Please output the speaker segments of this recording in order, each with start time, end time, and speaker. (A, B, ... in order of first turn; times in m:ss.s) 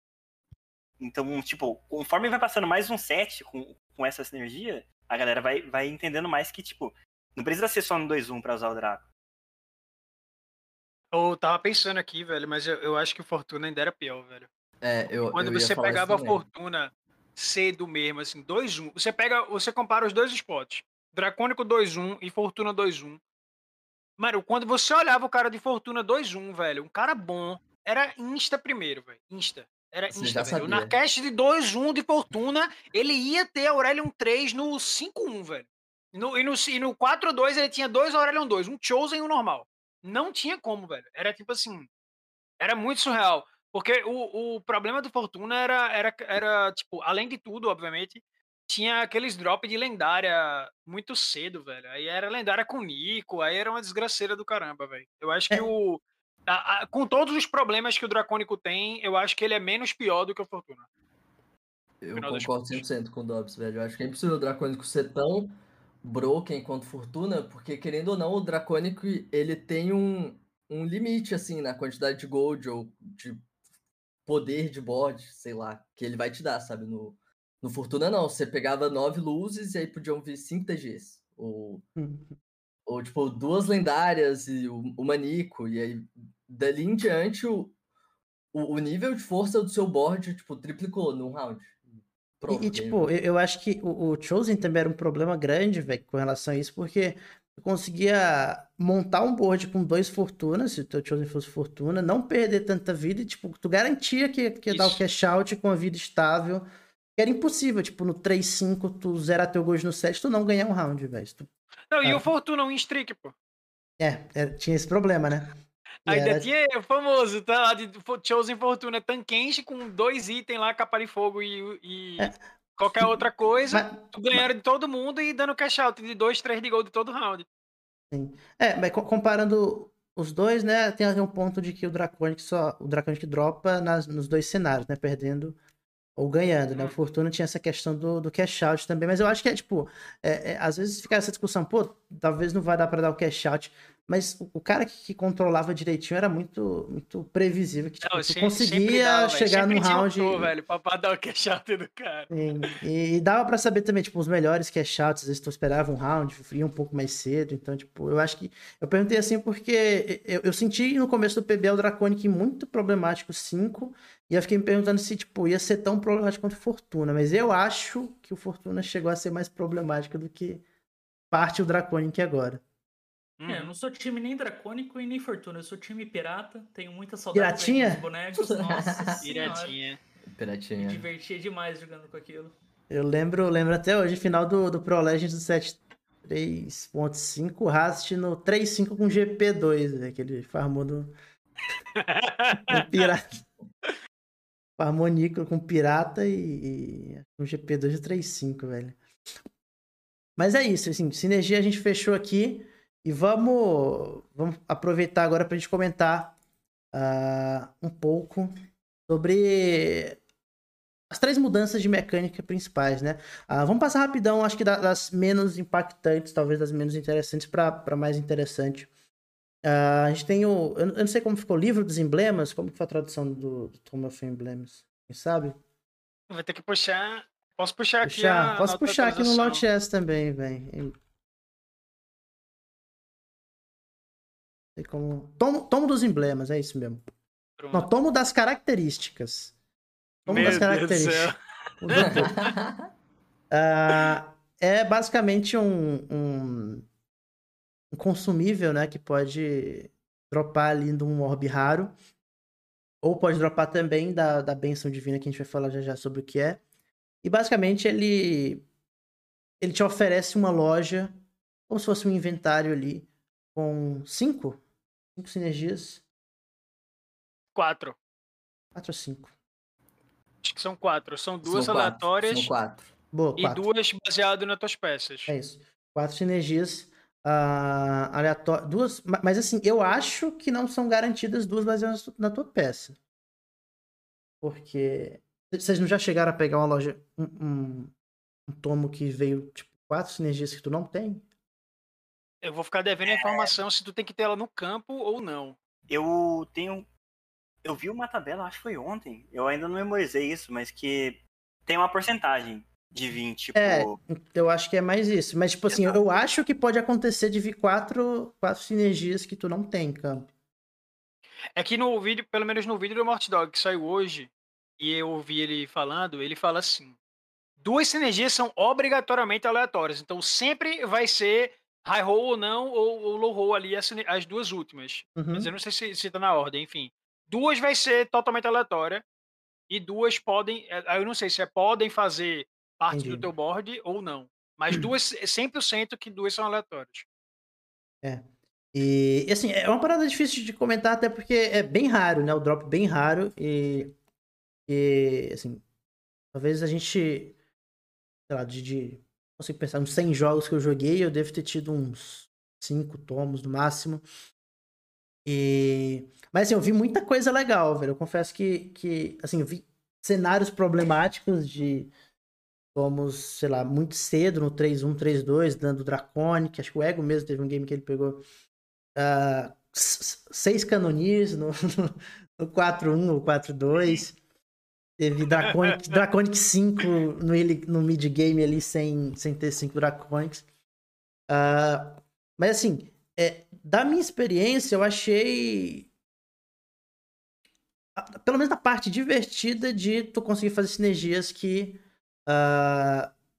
0:01.0-0:09.1 A
0:11.1-0:14.5 B
0:14.8-0:16.4 C
0:15.3-0:23.2 B
0:24.2-0:41.9 B
0:30.1-0:30.9 C
0:42.6-1:00.9 B
1:02.0-1:13.4 C
1:02.2-1:02.8 B
1:14.3-1:21.8 C
1:22.0-1:22.4 D
1:22.9-1:27.8 C
1:28.5-1:31.8 C
1:32.4-1:33.1 C
1:32.5-1:51.5 D
1:44.7-1:45.0 B
1:51.9-1:53.3 B
1:52.0-1:52.3 D
1:54.0-1:55.5 D
1:56.1-2:07.5 B
1:56.1-1:56.5 D
2:02.9-2:04.4 D
2:08.1-2:15.6 D
2:16.2-2:30.5 D
2:28.0-2:32.3 B
2:32.3-2:50.6 D
2:51.3-2:52.6 D
2:53.4-2:53.7 B
2:53.5-2:59.8 E
2:57.3-2:58.0 D
2:58.4-2:59.3 C
2:59.2-3:00.0 B
3:00.3-3:01.1 C
3:00.8-3:02.6 E
3:02.9-3:11.1 D
3:12.0-3:13.1 B
3:12.7-3:13.3 D
3:14.8-3:19.0 D
3:20.4-3:26.3 D
3:26.9-3:28.5 D
3:29.1-3:30.2 D
3:31.1-3:38.9 D
3:39.6-3:45.6 D
3:46.3-3:49.6 B
3:48.0-3:51.0 D
3:54.8-3:57.0 D
3:57.6-3:57.9 B
3:57.7-3:59.5 D
4:00.3-4:02.4 D
4:00.3-4:01.4 B
4:01.9-4:02.5 B
4:01.9-4:02.8 C
4:03.5-4:06.9 D
4:07.9-4:11.9 D
4:13.0-4:16.6 D
4:17.2-4:18.7 D
4:19.6-4:21.1 D
4:21.7-4:24.6 D
4:25.2-4:26.0 D
4:27.6-4:28.0 B
4:28.8-4:29.3 D
4:30.4-4:32.5 B
4:31.4-4:32.9 C
4:33.1-4:33.6 D
4:33.4-4:35.3 B
4:35.3-4:43.0 D
4:44.4-4:47.9 D
4:48.5-4:51.2 D
4:52.4-4:55.6 B
4:53.1-4:53.5 A
4:55.9-4:56.9 A
4:57.6-5:04.0 A
5:03.6-5:10.3 D
5:05.7-5:06.0 B
5:11.6-5:17.0 B
5:17.6-5:29.0 B
5:25.2-5:25.5 D
5:29.7-5:37.1 B
5:32.9-5:33.3 D
5:38.0-5:44.0 D
5:44.7-5:45.6 D
5:46.3-5:47.4 D
5:48.3-5:54.0 D
5:55.3-6:01.9 D
6:02.7-6:08.2 D
6:09.0-6:14.2 D
6:15.0-6:20.4 D
6:15.8-6:16.0 B
6:21.3-6:25.9 D
6:28.0-6:33.1 D